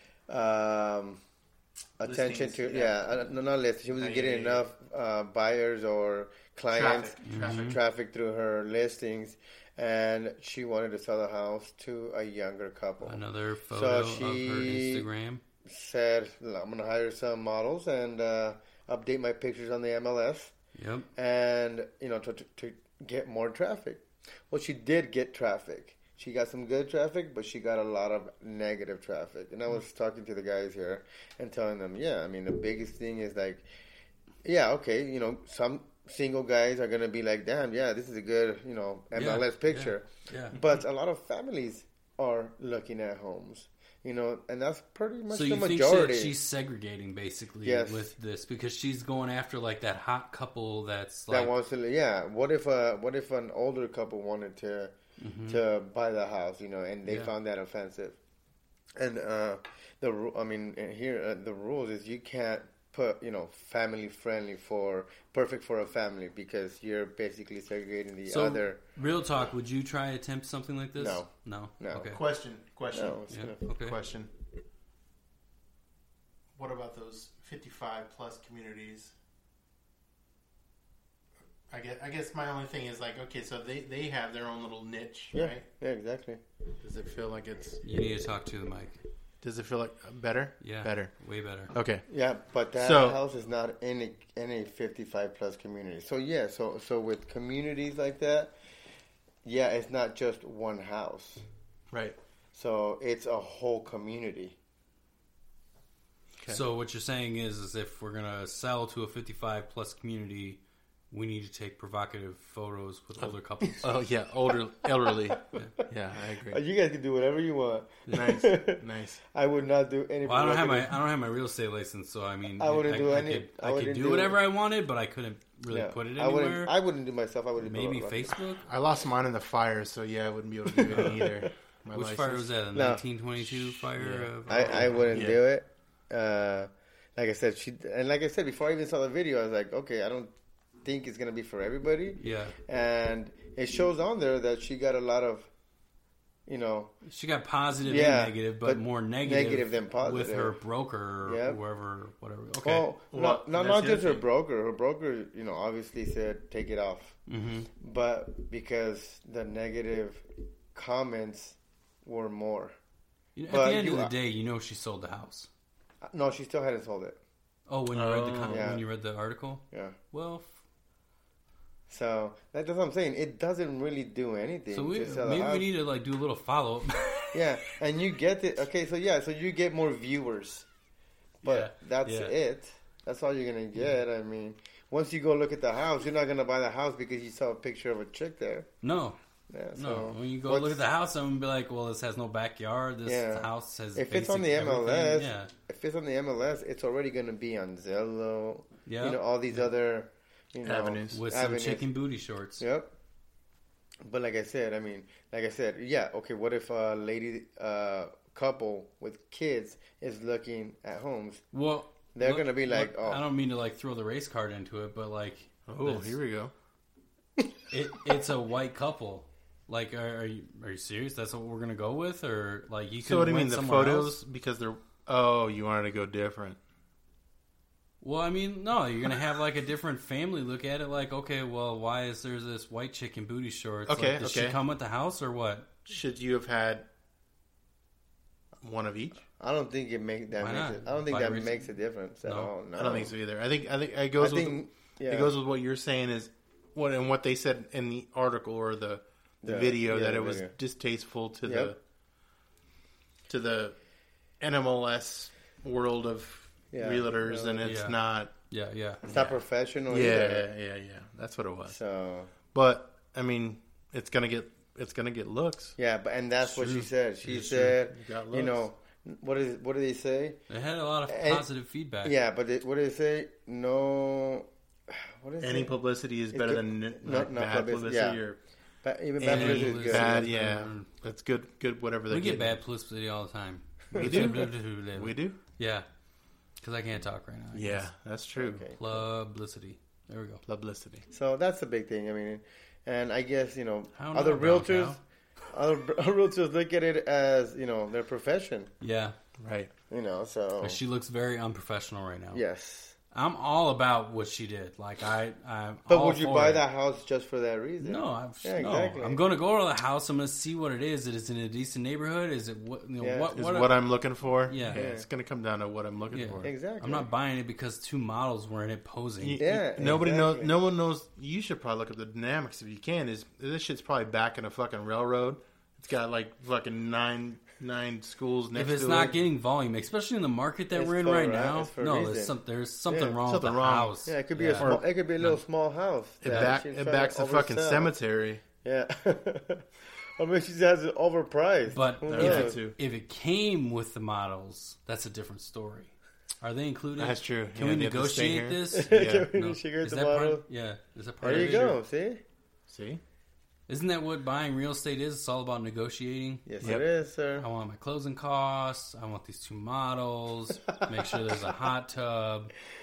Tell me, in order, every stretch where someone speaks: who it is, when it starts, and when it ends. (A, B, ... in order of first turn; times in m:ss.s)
0:00.3-0:01.2 A
0:02.0-0:13.2 A
0:02.0-0:03.2 B
0:03.9-0:04.6 B
0:06.7-0:07.8 B
0:07.3-0:07.8 C
0:13.0-0:15.4 C
0:13.7-0:15.0 A
0:15.6-0:20.5 A
0:20.8-0:21.1 C
0:21.2-0:33.6 A
0:34.4-0:46.3 A
0:39.1-0:40.6 C
0:45.3-0:51.5 C
0:47.6-0:48.1 A
0:51.3-0:54.9 A
0:55.2-0:55.6 C
0:55.4-0:58.2 A
0:57.1-0:57.3 C
0:59.0-1:08.8 A
1:08.3-1:12.2 C
1:11.0-1:11.3 A
1:11.8-1:12.2 A
1:12.0-1:14.3 B
1:12.9-1:13.6 A
1:13.3-1:14.0 C
1:16.6-1:19.1 B
1:21.7-1:25.7 B
1:25.3-1:26.4 A
1:26.8-1:27.8 B
1:27.8-1:29.0 C
1:29.4-1:31.1 B
1:30.6-1:31.7 C
1:31.7-1:32.0 B
1:32.1-1:38.5 A
1:32.8-1:33.2 B
1:39.4-1:41.4 A
1:41.9-1:42.2 B
1:42.5-1:44.6 A
1:46.5-1:53.9 C
1:53.8-1:56.6 B
1:56.5-2:01.0 A
1:58.1-1:58.4 C
1:58.1-1:59.2 B
2:00.2-2:06.7 C
2:02.6-2:04.4 A
2:05.7-2:08.4 A
2:07.6-2:08.6 C
2:08.6-2:12.5 B
2:10.7-2:11.4 A
2:10.9-2:11.2 C
2:11.9-2:15.2 C
2:12.7-2:13.6 A
2:14.0-2:15.4 B
2:14.5-2:20.3 A
2:20.8-2:25.5 A
2:22.2-2:22.6 C
2:26.5-2:26.9 A
2:27.0-2:32.9 C
2:27.8-2:30.6 A
2:31.2-2:31.6 A
2:32.6-2:37.2 A
2:33.1-2:34.2 B
2:37.3-2:37.7 C
2:37.8-2:42.8 A
2:43.4-2:45.5 C
2:43.5-2:44.1 A
2:46.0-2:47.2 A
2:47.7-2:50.6 C
2:47.9-2:48.7 B
2:48.5-2:48.8 A
2:51.9-2:55.7 A
2:54.7-2:57.6 C
2:57.3-3:00.7 A
3:01.4-3:02.3 C
3:01.4-3:08.7 A
3:08.8-3:09.2 C
3:09.5-3:10.8 A
3:09.8-3:15.5 C
3:13.0-3:21.8 A
3:18.8-3:19.2 C
3:20.6-3:21.2 B
3:21.1-3:22.6 C
3:22.6-3:22.9 A
3:24.0-3:31.4 A
3:31.5-3:36.2 C
3:32.1-3:33.2 A
3:35.7-3:36.5 B
3:37.7-3:44.2 C
3:43.0-3:46.6 B
3:48.0-3:55.7 C
3:53.9-3:54.6 B
3:55.8-3:56.8 B
3:58.6-3:59.2 B
3:59.4-4:03.1 A
4:00.4-4:01.7 C
4:02.2-4:02.5 C
4:02.8-4:11.8 B
4:04.2-4:05.3 A
4:09.4-4:10.5 A
4:11.4-4:11.7 A
4:13.3-4:13.8 B
4:14.4-4:18.3 B
4:16.7-4:17.6 A
4:17.6-4:18.0 C
4:18.5-4:19.4 C
4:19.0-4:20.5 A
4:19.9-4:21.8 B
4:21.7-4:22.3 A
4:22.5-4:25.7 B
4:25.8-4:30.4 A
4:26.4-4:27.7 C
4:27.2-4:28.7 B
4:30.5-4:32.1 C
4:31.1-4:31.5 A
4:32.0-4:35.8 A
4:35.4-4:38.4 B
4:36.3-4:38.2 A
4:38.8-4:40.3 A
4:39.2-4:42.6 B
4:39.2-4:40.9 C
4:42.1-4:45.8 C
4:43.9-4:44.4 A
4:43.9-4:45.4 B
4:46.6-4:47.8 C
4:47.5-4:48.6 B
4:48.4-4:49.0 A
4:48.7-4:50.4 C
4:50.5-4:51.1 B
4:51.1-4:55.0 A
4:54.0-4:55.0 C
4:55.5-4:58.7 A
4:58.8-4:59.2 C
4:59.4-4:59.7 B
4:59.9-5:00.8 A
5:00.6-5:02.4 C
5:02.3-5:02.9 A
5:03.1-5:06.6 C
5:05.9-5:09.2 A
5:07.8-5:13.8 C
5:13.0-5:13.3 A
5:13.3-5:16.5 B
5:14.5-5:14.9 C
5:14.7-5:15.0 A
5:16.1-5:19.4 C
5:16.4-5:17.1 A
5:19.2-5:29.2 B
5:19.4-5:20.5 A
5:28.5-5:35.4 C
5:30.7-5:32.4 A
5:32.9-5:33.2 A
5:33.2-5:33.9 B
5:34.0-5:37.9 A
5:34.6-5:34.8 B
5:36.2-5:38.4 B
5:36.2-5:36.5 C
5:38.6-5:42.6 A
5:41.7-5:51.8 C
5:42.1-5:42.8 B
5:47.0-5:49.3 B
5:48.7-5:50.4 A
5:51.2-5:51.8 B
5:51.2-5:52.2 A
5:52.7-5:53.0 B
5:53.7-5:56.8 C
5:56.4-5:57.5 A
5:57.4-6:02.5 C